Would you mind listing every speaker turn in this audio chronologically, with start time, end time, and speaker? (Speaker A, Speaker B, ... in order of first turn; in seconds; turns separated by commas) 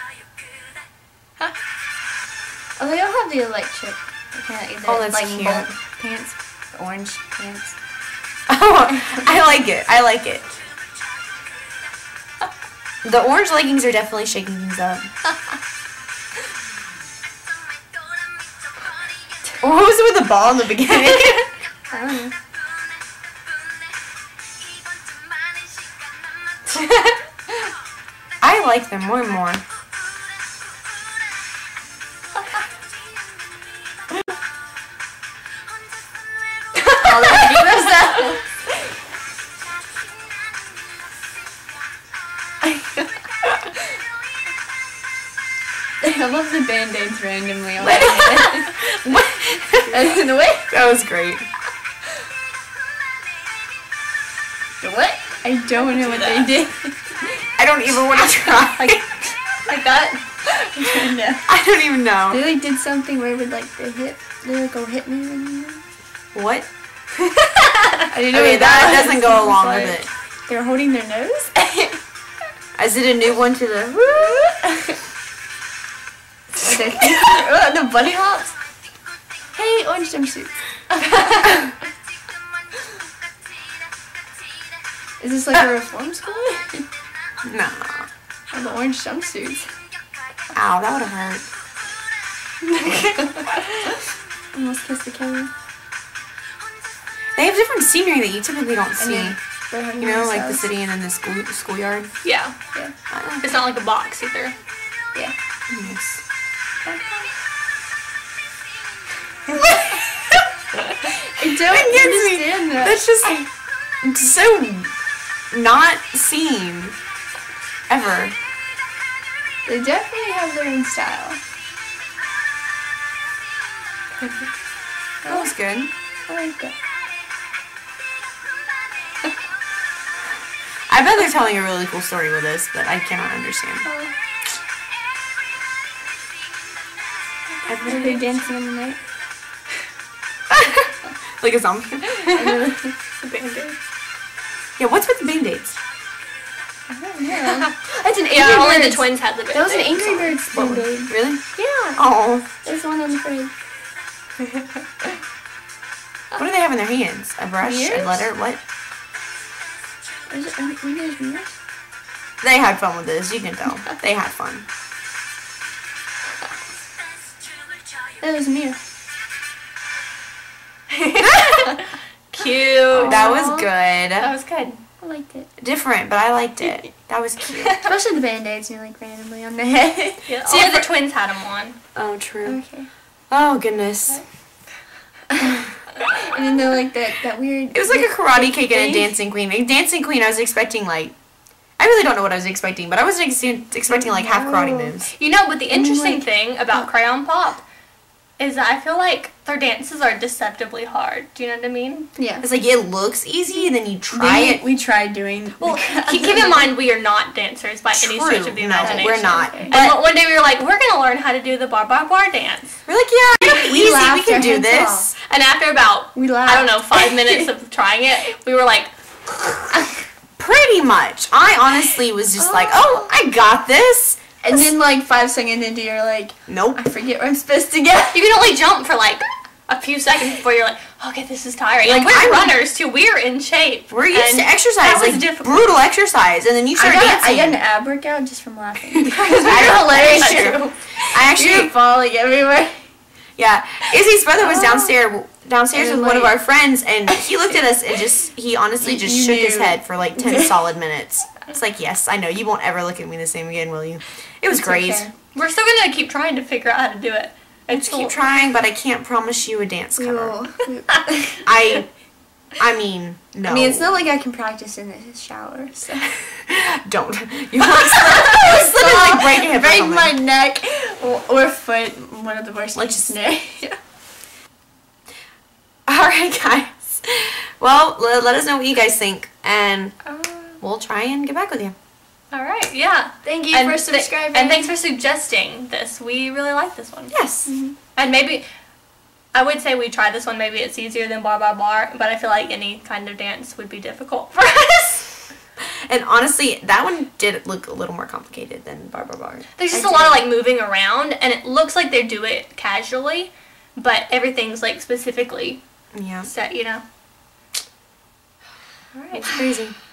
Speaker A: 2.8-7.7, Speaker B: 4.8-5.7, Speaker B: 8.5-10.5, Speaker B: 13.0-15.1, Speaker B: 19.6-21.5, Speaker A: 21.9-22.3, Speaker B: 28.4-29.6, Speaker C: 36.9-37.9, Speaker A: 37.0-38.4, Speaker A: 42.6-43.1, Speaker A: 46.0-48.7, Speaker B: 47.8-51.5, Speaker A: 49.9-50.7, Speaker A: 54.8-57.4, Speaker C: 55.8-56.5, Speaker B: 57.6-59.0, Speaker C: 58.7-60.2, Speaker A: 60.5-61.4, Speaker B: 61.5-62.5, Speaker A: 62.3-65.8, Speaker B: 66.3-66.7, Speaker A: 68.1-72.0, Speaker B: 68.1-70.1, Speaker B: 72.8-74.5, Speaker A: 76.6-78.5, Speaker A: 79.5-81.7, Speaker A: 85.2-86.8, Speaker B: 87.4-88.1, Speaker A: 88.5-89.7, Speaker B: 90.5-91.4, Speaker A: 92.6-93.6, Speaker A: 94.5-95.5, Speaker B: 97.3-99.4, Speaker A: 99.0-100.7, Speaker B: 100.0-102.1, Speaker C: 102.2-102.5, Speaker B: 103.1-103.5, Speaker C: 103.4-104.5, Speaker B: 105.7-106.2, Speaker A: 106.8-107.3, Speaker B: 109.5-110.2, Speaker A: 111.3-113.0, Speaker B: 111.4-113.5, Speaker B: 114.0-114.9, Speaker B: 115.5-117.0, Speaker B: 117.9-118.3, Speaker A: 119.7-121.4, Speaker B: 125.2-125.9, Speaker A: 126.3-126.7, Speaker B: 130.9-133.8, Speaker A: 133.8-134.1, Speaker C: 137.7-138.3, Speaker B: 137.7-138.2, Speaker A: 137.8-139.0, Speaker B: 140.5-142.6, Speaker A: 142.3-142.9, Speaker C: 143.2-143.8, Speaker B: 144.8-145.7, Speaker A: 146.9-151.2, Speaker C: 147.4-150.4, Speaker B: 150.5-152.5, Speaker C: 151.6-152.0, Speaker A: 152.6-153.5, Speaker B: 156.3-158.6, Speaker A: 157.6-158.3, Speaker A: 160.3-161.5, Speaker B: 162.4-164.6, Speaker A: 168.2-168.8, Speaker C: 170.9-173.2, Speaker B: 172.9-174.3, Speaker A: 173.0-173.7, Speaker C: 174.2-174.8, Speaker A: 175.0-175.5, Speaker B: 175.6-177.8, Speaker A: 177.8-180.8, Speaker C: 180.3-181.8, Speaker B: 181.9-182.6, Speaker A: 182.4-182.9, Speaker B: 183.3-184.2, Speaker A: 185.3-189.1, Speaker B: 187.7-191.1, Speaker B: 191.8-195.1, Speaker A: 193.9-194.9, Speaker C: 195.1-197.6, Speaker A: 195.7-196.2, Speaker C: 198.4-202.1, Speaker A: 202.2-202.4, Speaker B: 202.4-204.6, Speaker A: 204.1-206.7, Speaker C: 205.6-212.7, Speaker B: 207.9-210.0, Speaker A: 208.8-209.8, Speaker B: 212.9-215.2, Speaker A: 213.6-215.1, Speaker C: 215.2-219.8, Speaker A: 216.1-217.5, Speaker B: 220.4-224.2, Speaker A: 222.4-223.1, Speaker A: 224.4-228.3, Speaker B: 226.5-226.8, Speaker C: 228.1-235.7, Speaker B: 231.8-232.6, Speaker B: 233.9-237.6, Speaker A: 236.8-242.8, Speaker B: 239.0-241.7, Speaker C: 239.4-240.7, Speaker B: 243.4-255.1, Speaker A: 244.5-244.9, Speaker A: 245.7-246.4, Speaker A: 248.8-250.6, Speaker A: 254.5-255.1, Speaker C: 255.3-258.2, Speaker B: 257.7-260.4, Speaker A: 259.9-261.5, Speaker B: 261.4-261.9, Speaker B: 262.6-264.1, Speaker A: 263.4-266.1, Speaker B: 266.4-270.2, Speaker A: 268.0-273.8, Speaker B: 272.7-273.1, Speaker B: 275.9-280.0, Speaker A: 280.1-280.5, Speaker B: 280.6-281.7, Speaker C: 282.3-287.1, Speaker A: 283.2-284.8, Speaker B: 287.1-287.5, Speaker A: 287.5-287.7, Speaker C: 287.9-288.4, Speaker C: 289.3-295.2, Speaker B: 295.9-300.2, Speaker C: 299.6-305.6, Speaker B: 305.9-306.3, Speaker C: 306.2-306.8, Speaker C: 308.9-309.3, Speaker B: 309.1-309.8